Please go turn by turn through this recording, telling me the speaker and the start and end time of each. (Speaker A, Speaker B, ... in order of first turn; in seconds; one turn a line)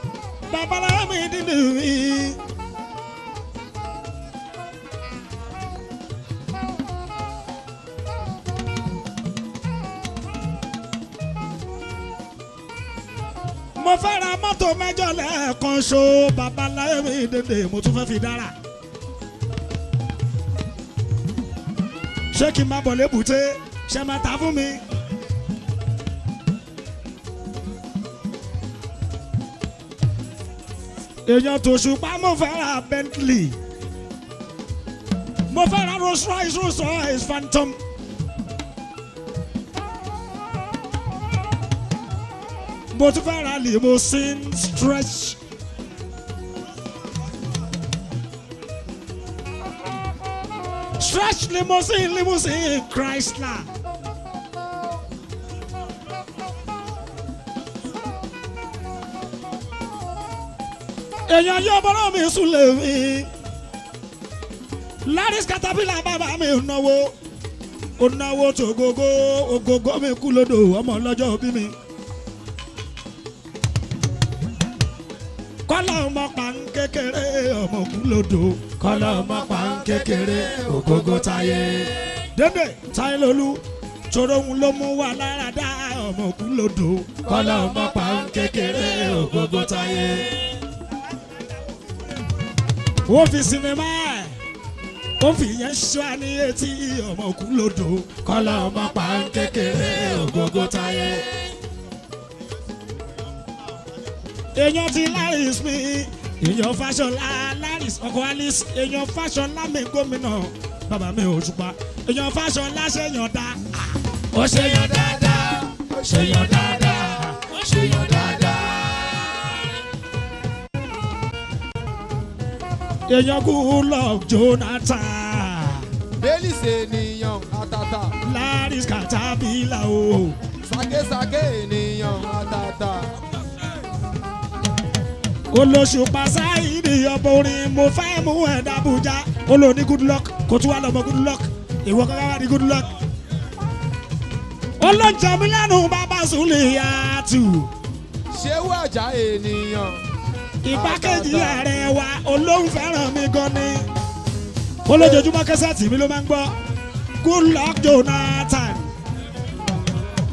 Speaker A: 0.5-2.4
Speaker A: 13.8-18.5
Speaker A: 22.3-24.8
Speaker A: 31.2-33.6
Speaker A: 35.5-37.8
Speaker A: 42.9-45.4
Speaker A: 51.0-53.7
Speaker A: 61.3-63.3
Speaker A: 65.0-67.1
Speaker A: 68.0-71.7
Speaker A: 75.7-90.3
Speaker A: 93.1-94.3
Speaker A: 95.2-101.2
Speaker A: 104.5-118.7
Speaker B: 117.5-118.5
Speaker A: 123.1-125.8
Speaker B: 126.2-128.1
Speaker A: 128.2-130.3
Speaker B: 130.6-133.1
Speaker A: 135.5-142.9
Speaker A: 144.8-147.7
Speaker B: 148.3-150.0
Speaker A: 150.6-153.9
Speaker B: 150.7-151.6
Speaker A: 154.8-156.5
Speaker B: 154.9-155.3
Speaker A: 157.2-158.9